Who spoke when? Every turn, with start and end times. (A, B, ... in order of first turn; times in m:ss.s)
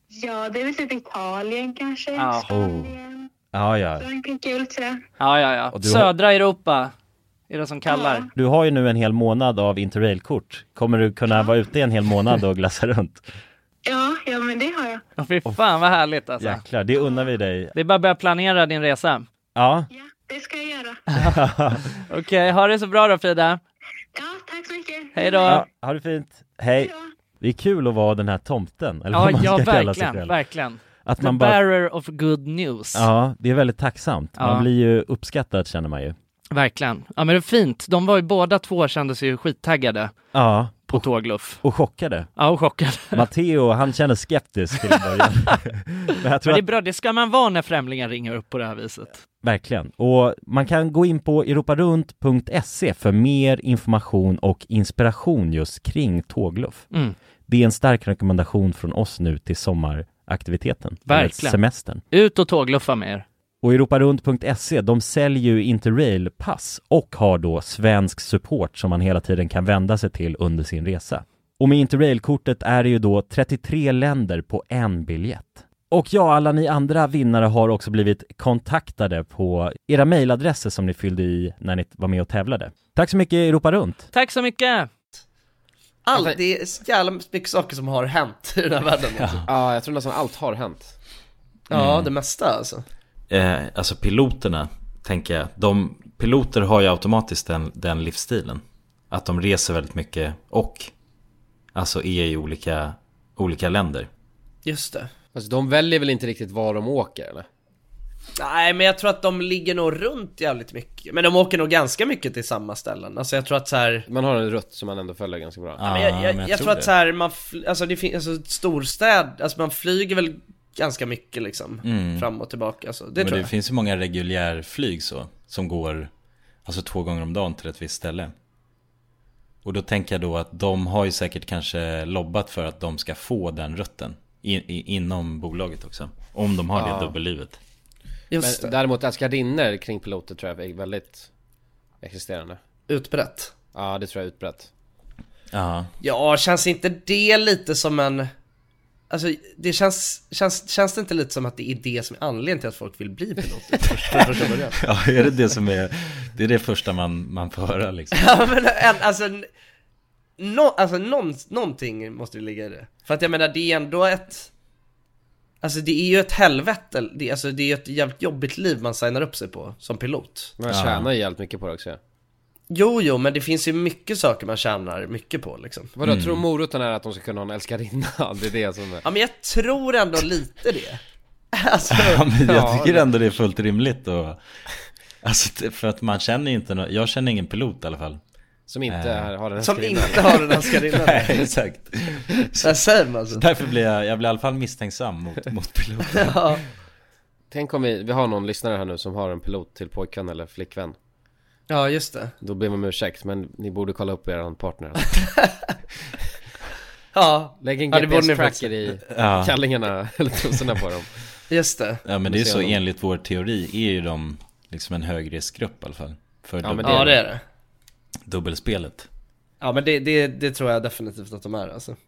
0:00.1-0:03.2 A
0:02.2-0:02.5 B
0:02.5-0:02.9 C
0:03.5-0:04.1 C
0:04.0-0:05.0 A
0:05.2-0:06.9 B
0:05.7-0:06.1 C
0:07.5-0:08.3 B
0:07.9-0:08.3 A
0:08.3-0:13.2 C
0:13.8-0:15.0 A
0:15.2-0:16.6 B
0:16.4-0:17.7 C
0:17.7-0:19.2 B
0:19.5-0:19.9 C
0:19.9-0:21.0 A
0:21.1-0:21.4 B
0:21.2-0:21.8 C
0:22.0-0:23.6 B
0:24.1-0:25.5 A
0:25.1-0:25.6 B
0:25.4-0:30.4 C
0:26.8-0:27.1 A
0:29.1-0:33.1 B
0:31.0-0:31.6 C
0:32.9-0:36.1 C
0:34.4-0:34.7 B
0:36.5-0:40.1 B
0:40.3-0:41.1 C
0:40.8-0:41.6 B
0:41.6-0:42.3 C
0:42.4-0:43.2 B
0:43.1-0:46.7 C
0:46.4-0:49.2 B
0:49.4-0:56.8 C
0:57.5-1:02.0 C
1:01.1-1:01.6 B
1:02.1-1:03.2 B
1:03.6-1:24.1 C
1:24.1-1:24.9 B
1:26.0-1:29.4 D
1:26.1-1:26.4 E
1:29.2-1:29.5 F
1:29.5-1:30.9 E
1:31.7-1:32.8 D
1:31.7-1:32.1 F
1:33.3-1:40.9 F
1:41.7-1:44.1 F
1:44.6-1:45.1 D
1:45.3-1:47.4 E
1:48.4-1:54.0 D
1:54.1-1:55.8 E
1:55.8-1:56.9 F
1:55.8-2:03.5 D
2:01.8-2:02.3 F
2:03.2-2:06.1 F
2:06.6-2:08.3 F
2:09.6-2:17.6 F
2:16.8-2:17.1 E
2:18.3-2:18.7 D
2:18.4-2:21.3 E
2:22.0-2:22.6 E
2:22.9-2:23.5 D
2:23.7-2:24.7 E
2:25.5-2:25.9 F
2:26.0-2:28.3 D
2:29.1-2:34.8 D
2:34.8-2:38.4 F
2:38.1-2:39.5 D
2:40.4-2:44.5 D
2:45.6-2:50.5 D
2:50.6-2:52.0 E
2:50.7-2:51.1 F
2:52.7-2:55.9 D
2:56.0-2:59.0 E
2:56.0-2:56.4 F
2:59.0-3:01.0 D
3:01.5-3:02.3 D
3:01.9-3:04.4 F
3:02.4-3:03.0 E
3:05.2-3:08.2 F
3:08.7-3:10.3 E
3:08.9-3:09.3 F
3:09.6-3:11.5 D
3:10.5-3:16.6 F
3:12.6-3:13.4 D
3:16.1-3:16.6 D
3:17.5-3:21.0 E
3:21.7-3:22.3 D
3:22.4-3:25.1 E
3:27.1-3:28.7 D
3:27.6-3:31.1 E
3:29.1-3:29.5 F
3:31.5-3:32.0 D
3:32.0-3:37.2 F
3:32.2-3:32.8 E
3:36.6-3:37.2 E
3:36.8-3:37.4 D
3:38.2-3:39.1 F
3:39.6-3:42.0 D